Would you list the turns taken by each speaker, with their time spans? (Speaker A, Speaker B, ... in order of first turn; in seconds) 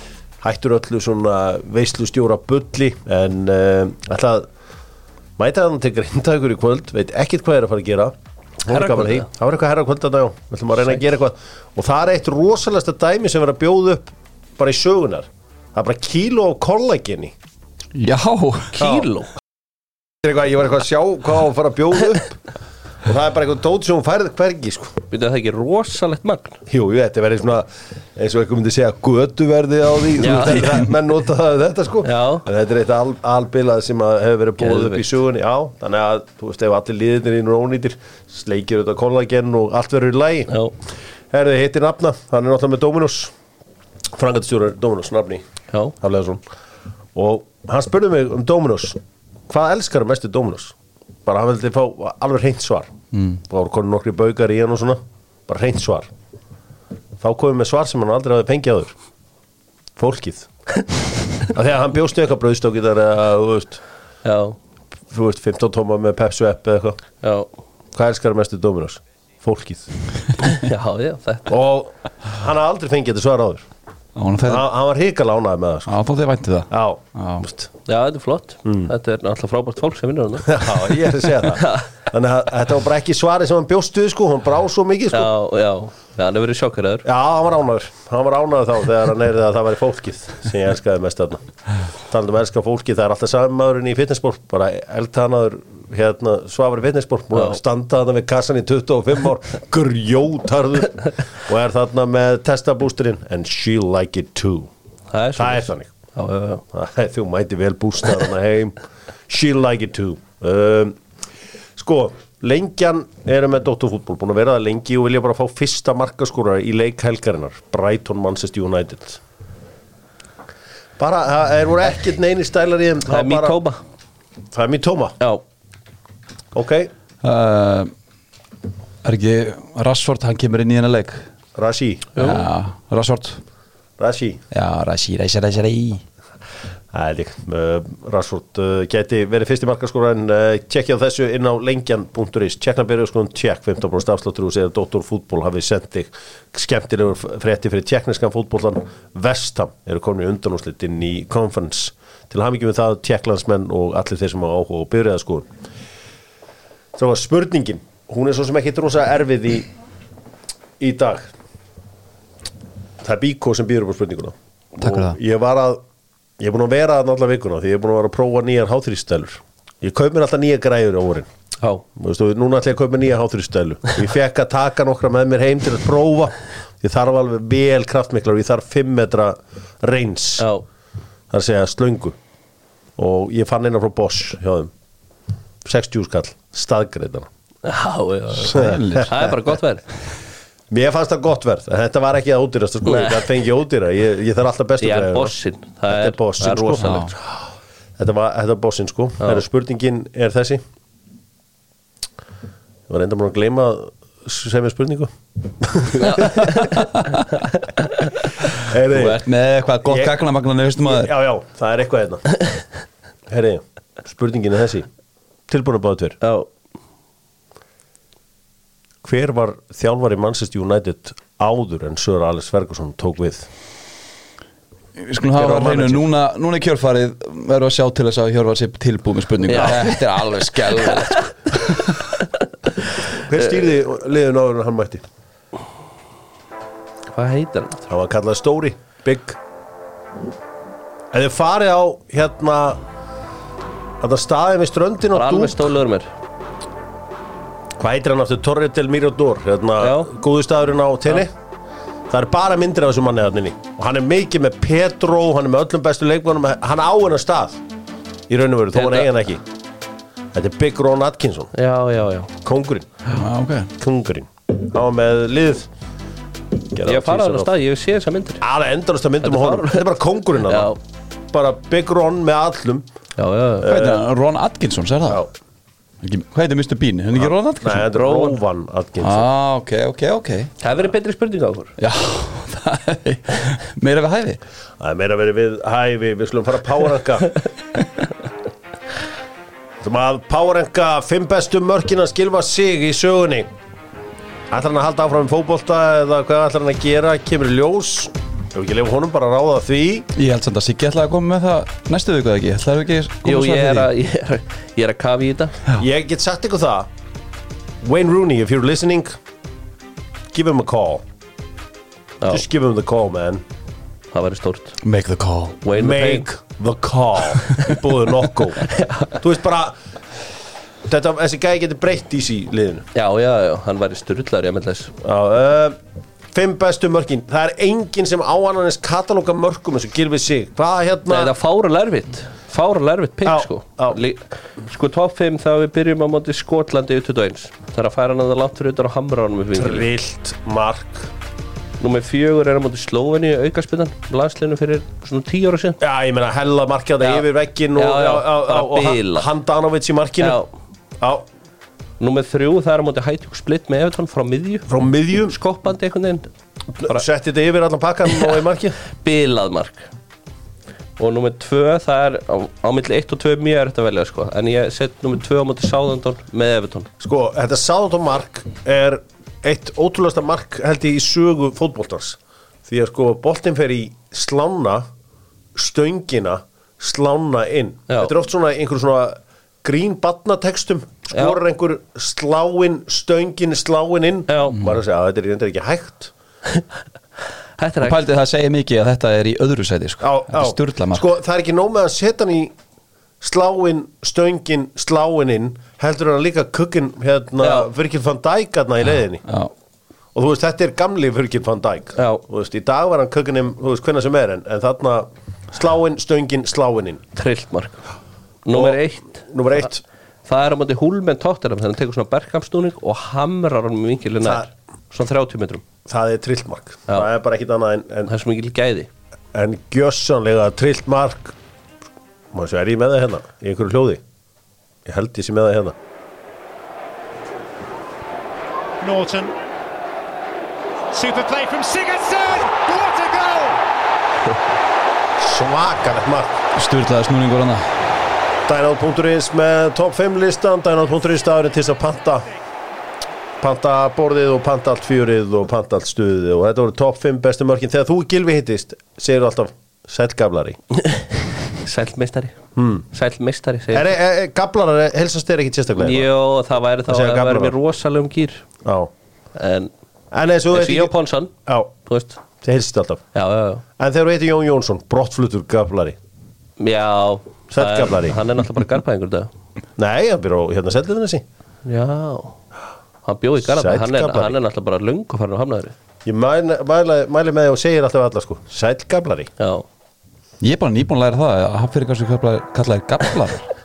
Speaker A: 0.4-4.5, 5.4-17.3, 18.8-19.0, 20.2-22.4, 23.0-25.0, 26.7-40.5, 41.3-43.3, 44.1-45.4, 46.0-46.4, 47.1-50.7, 51.2-52.9, 53.5-56.1, 57.2-58.9, 60.0-60.5, 61.4-63.8, 65.1-67.0, 67.9-69.9, 71.5-73.7, 74.4-76.0, 76.7-77.7, 78.6-78.9, 80.4-85.3, 87.0-91.4, 92.1-104.7, 105.4-105.9, 106.7-111.0, 111.8-119.2, 121.0-123.6, 124.5-125.2, 126.5-126.9, 131.5-132.1, 134.0-134.4, 136.9-155.5, 156.9-159.7, 160.8-161.3, 163.0-165.8, 166.4-171.3, 171.9-180.5, 181.3-182.1, 183.0-184.7, 185.6-187.3, 188.5-189.2, 190.7-195.3, 195.9-197.3, 198.0-200.6, 202.9-206.5, 208.5-209.2, 209.8-210.2, 210.8-212.4, 213.3-214.9, 215.5-216.2, 219.0-223.5, 225.3-226.0, 233.2-235.0, 237.9-239.4, 241.1-242.8, 244.0-245.7, 247.8-251.3, 252.1-257.6, 258.3-259.4, 260.3-261.5, 262.4-262.9, 263.8-265.7, 266.7-267.5, 268.4-270.7, 271.3-272.8, 273.6-274.0, 277.2-279.2, 284.8-287.4, 289.8-293.5, 294.5-300.1, 305.8-306.9, 307.8-309.1, 310.3-311.0, 312.3-313.4, 315.7-319.8, 320.9-322.9, 325.0-325.8, 326.3-331.3, 333.2-334.0, 339.6-341.1, 345.8-350.4, 354.7-355.4, 356.8-358.8, 367.0-374.9, 375.5-386.1, 390.0-392.5, 393.2-399.2, 400.1-407.0, 408.5-409.8, 414.2-414.5, 415.9-418.1, 419.3-421.3, 422.3-424.0, 424.9-425.7, 435.2-436.4, 438.5-442.3, 443.4-450.6, 452.6-452.9, 453.7-456.1, 456.9-457.5, 458.6-458.9, 460.1-460.9, 461.4-461.7, 462.4-463.0, 463.8-466.0, 467.5-468.2, 469.8-471.2, 473.4-474.4, 476.0-479.3
Speaker B: 8.7-9.3, 18.7-19.3, 25.1-26.6, 30.2-30.8, 32.0-32.4, 34.6-35.0, 40.5-40.7, 64.2-64.6, 67.2-67.5, 70.4-71.5, 77.8-80.8, 81.5-81.9, 85.1-87.0, 105.1-106.6, 123.1-123.8, 132.1-132.4, 180.4-180.6, 187.6-189.8, 192.8-193.3, 194.8-197.1, 206.0-206.8, 207.8-208.0, 216.2-216.5, 229.5-229.9, 237.1-237.9, 245.1-246.1, 249.8-250.1, 258.7-259.1, 261.5-262.3, 266.8-268.4, 269.2-269.8, 270.4-270.8, 273.2-273.7, 277.9-278.4, 280.6-281.7, 303.2-305.5, 314.1-314.8, 315.6-316.2, 318.7-319.1, 322.9-324.9, 331.1-339.9, 341.8-345.8, 347.0-349.3, 350.2-350.5, 352.0-356.3, 358.9-359.9, 361.0-366.9, 381.1-381.4, 384.3-384.6, 387.6-388.0, 397.4-397.7, 402.0-402.2, 407.1-407.8, 408.4-409.6, 410.2-415.6, 418.1-418.9, 450.8-451.1, 451.6-452.4, 452.9-453.9, 455.8-458.4, 459.3-459.7, 460.5-461.3, 461.9-462.2, 463.1-463.6, 466.6-469.3, 471.6-472.4, 473.0-475.7, 479.4-479.6
Speaker C: 17.9-18.8, 53.1-53.4, 74.1-74.6, 75.9-77.4, 127.2-127.9, 129.0-131.2, 132.2-133.4, 134.5-136.0, 164.8-165.2, 188.5-189.1, 196.8-197.1, 208.9-211.1, 224.9-232.0, 263.1-263.7, 273.6-275.2, 276.0-277.9, 279.0-280.5, 281.8-284.4, 300.1-303.9, 314.8-315.6, 387.8-391.0, 399.2-399.5, 436.5-437.6, 480.4-483.5
Speaker D: 428.8-429.3, 430.9-433.6